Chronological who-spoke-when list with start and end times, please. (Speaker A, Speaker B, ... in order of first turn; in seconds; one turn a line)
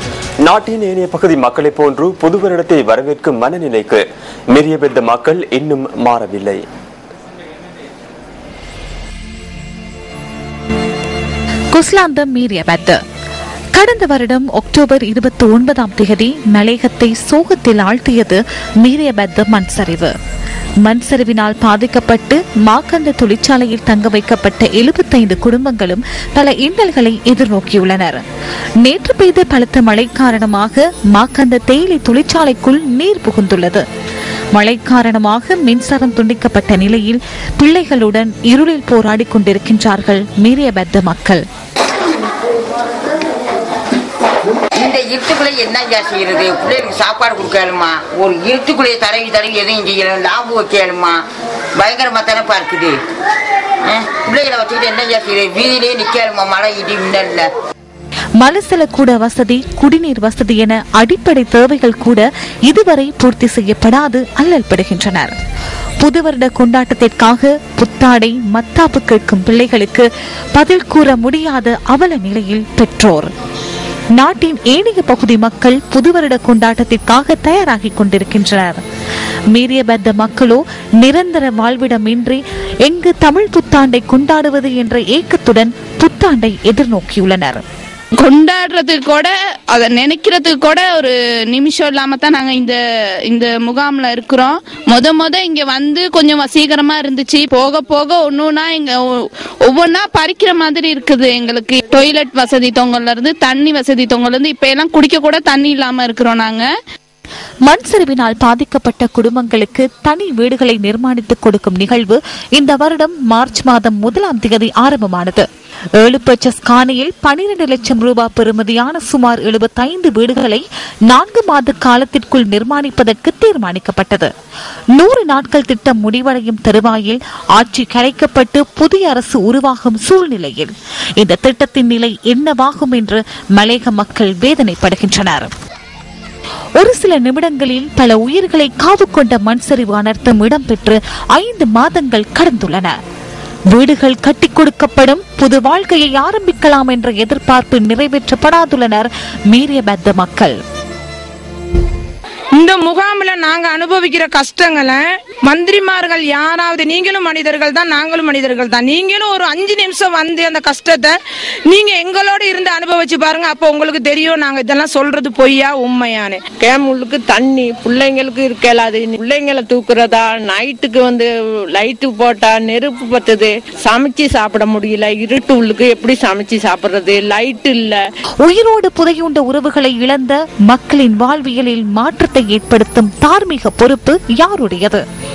Speaker A: 0.5-6.6
Speaker B: 11.7-13.0
Speaker B: 13.7-20.1
Speaker B: 20.8-28.2
Speaker B: 28.8-33.8
Speaker B: 34.5-41.4
Speaker C: 44.8-51.2
Speaker C: 51.8-53.0
Speaker C: 53.8-57.5
Speaker B: 58.4-65.3
Speaker B: 66.0-73.3
Speaker B: 74.2-78.8
Speaker B: 79.5-87.6
Speaker D: 88.2-92.8
Speaker D: 93.3-106.7
Speaker B: 107.7-115.5
Speaker B: 116.0-124.3
Speaker B: 125.0-135.5
Speaker B: 136.8-142.9
Speaker B: 143.7-150.6
Speaker E: 152.6-161.2
Speaker E: 161.7-166.4
Speaker F: 166.6-178.0
Speaker B: 178.4-185.0